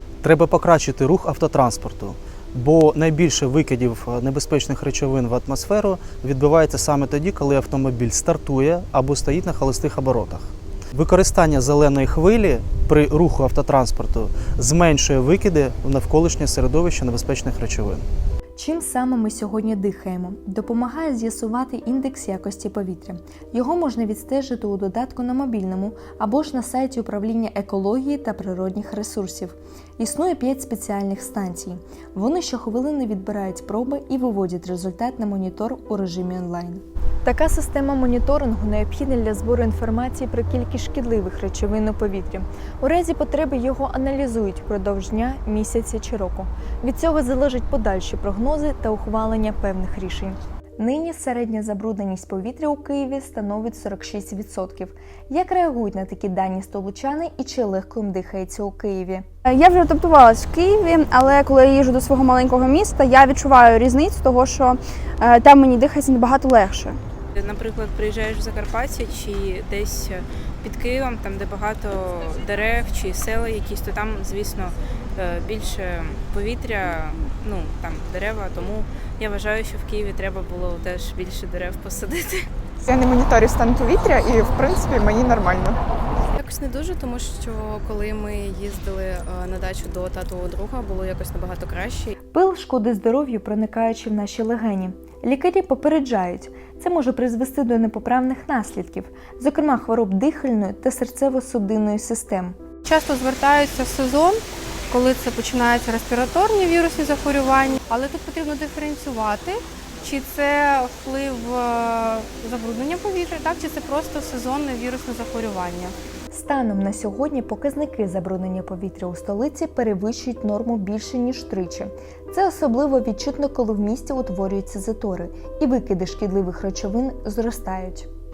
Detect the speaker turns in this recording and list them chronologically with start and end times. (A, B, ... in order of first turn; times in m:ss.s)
0:00.2-0:18.0 A
0:18.6-0:59.3 B
0:59.5-1:07.0 C
1:07.4-1:22.5 D
1:22.8-1:25.8 E
1:26.2-1:32.1 F
1:32.3-1:42.6 B
1:42.8-1:55.9 G
1:56.3-2:08.1 B